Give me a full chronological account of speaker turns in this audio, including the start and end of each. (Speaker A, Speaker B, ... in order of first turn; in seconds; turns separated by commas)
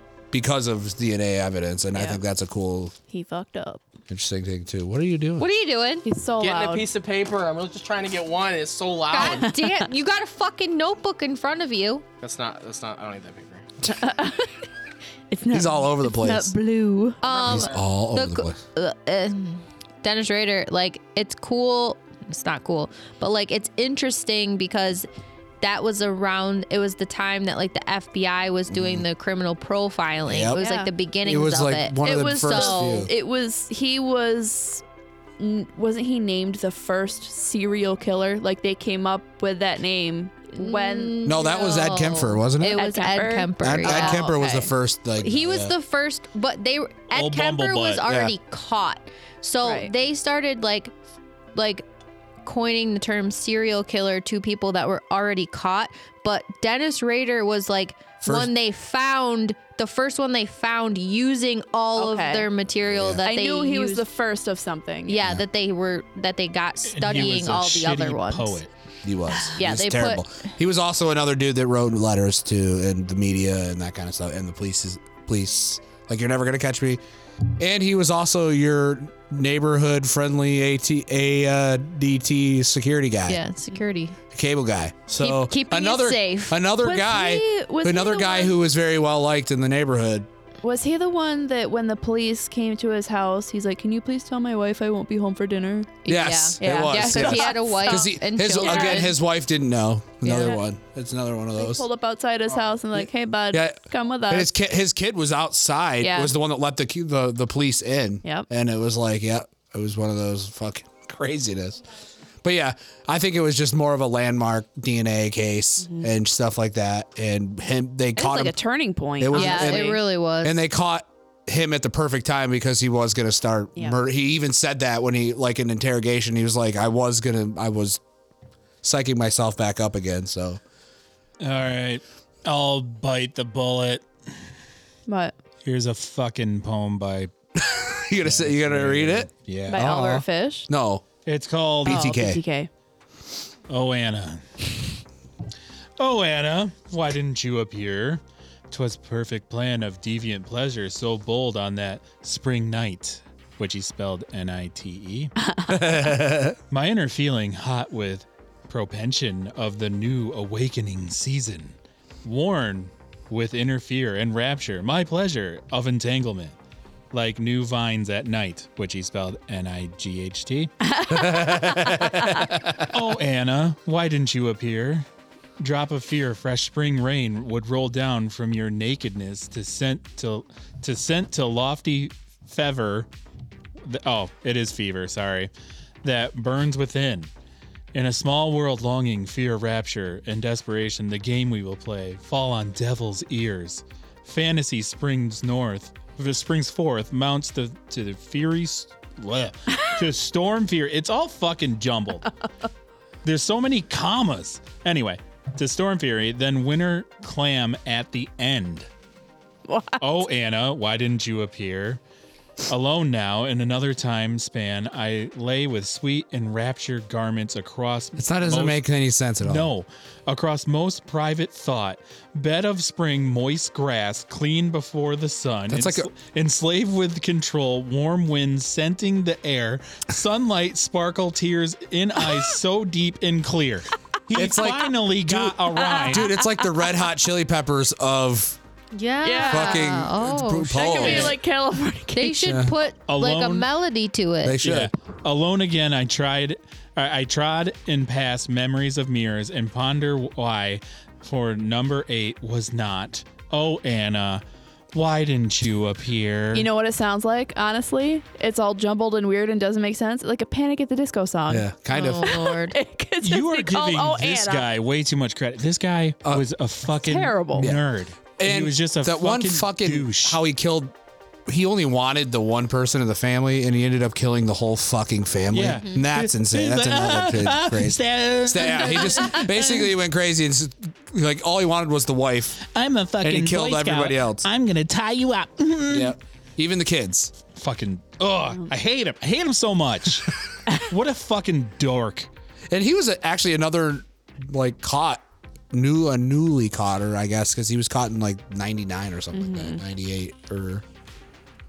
Speaker A: 0.3-2.9, Speaker B: 1.9-2.2, Speaker B: 3.1-3.8, Speaker A: 4.1-5.5, Speaker C: 5.4-6.1, Speaker B: 6.0-6.9, Speaker D: 6.4-9.5, Speaker C: 9.1-12.0, Speaker B: 9.2-9.9, Speaker D: 12.2-13.7, Speaker B: 13.8-14.7, Speaker B: 15.3-17.2, Speaker A: 15.5-16.6, Speaker C: 16.2-16.5, Speaker C: 17.0-25.1, Speaker D: 17.2-17.8, Speaker A: 17.4-18.6, Speaker C: 25.6-33.1, Speaker A: 28.7-29.1, Speaker A: 30.3-30.6, Speaker B: 30.6-30.9, Speaker A: 31.2-33.1, Speaker B: 32.0-34.8, Speaker B: 35.4-41.2, Speaker C: 40.6-44.3, Speaker A: 41.2-42.9, Speaker B: 42.7-44.7, Speaker A: 43.6-45.8, Speaker C: 45.2-50.9, Speaker E: 47.1-48.0, Speaker A: 48.1-48.3, Speaker B: 49.6-49.9, Speaker C: 51.5-51.9, Speaker C: 52.5-64.0, Speaker A: 58.2-58.5, Speaker B: 62.0-62.5, Speaker A: 62.9-63.3, Speaker B: 63.2-65.2, Speaker C: 65.1-68.6, Speaker E: 66.8-68.7, Speaker A: 69.0-77.0, Speaker C: 69.6-70.2, Speaker A: 77.6-83.4, Speaker C: 83.3-84.2, Speaker A: 84.3-90.3, Speaker C: 85.2-86.7, Speaker B: 86.8-88.6, Speaker B: 90.6-96.1, Speaker C: 96.0-99.2, Speaker A: 96.1-101.9, Speaker B: 96.6-99.1, Speaker C: 100.2-100.6, Speaker B: 101.6-104.5, Speaker A: 102.9-111.8, Speaker B: 106.0-106.3, Speaker A: 112.4-118.6, Speaker B: 115.8-116.1, Speaker B: 118.2-120.0, Speaker A: 119.2-128.0, Speaker C: 119.3-120.6, Speaker A: 128.8-130.6, Speaker E: 131.4-134.1, Speaker B: 135.1-135.4, Speaker E: 135.7-137.3, Speaker A: 137.6-141.0, Speaker E: 138.2-139.8, Speaker B: 139.7-140.7, Speaker E: 141.3-142.1, Speaker A: 141.8-142.4, Speaker B: 141.8-142.7, Speaker E: 143.7-144.6, Speaker E: 146.0-155.3, Speaker B: 155.4-155.8, Speaker A: 155.7-156.6, Speaker E: 156.7-166.6, Speaker E: 167.1-170.7, Speaker B: 170.9-172.4, Speaker A: 171.1-172.9, Speaker E: 172.8-175.1, Speaker E: 175.6-183.1, Speaker E: 183.8-185.5, Speaker E: 186.0-187.3, Speaker E: 187.9-202.3, Speaker E: 203.2-208.9, Speaker B: 209.7-210.2, Speaker E: 210.0-212.0, Speaker E: 212.7-218.9, Speaker A: 218.2-219.7, Speaker E: 219.4-236.3, Speaker A: 225.7-226.1, Speaker A: 234.3-238.6, Speaker B: 235.8-236.7, Speaker C: 238.9-241.3, Speaker B: 239.2-240.0, Speaker A: 239.4-241.4, Speaker B: 240.7-242.5, Speaker E: 241.0-241.3, Speaker C: 242.1-244.6, Speaker A: 242.4-242.8, Speaker E: 243.1-243.7, Speaker A: 244.4-244.9, Speaker E: 244.6-254.4, Speaker E: 254.9-256.7, Speaker B: 256.5-264.7, Speaker A: 261.5-262.4, Speaker C: 261.9-262.8, Speaker E: 263.2-270.4, Speaker B: 267.0-267.7, Speaker A: 268.4-270.9, Speaker A: 271.5-282.6, Speaker E: 275.5-279.8, Speaker C: 275.7-276.1, Speaker E: 282.6-286.2, Speaker A: 283.2-284.5, Speaker A: 285.9-287.3, Speaker E: 287.6-292.3, Speaker A: 292.7-300.8, Speaker B: 299.3-299.8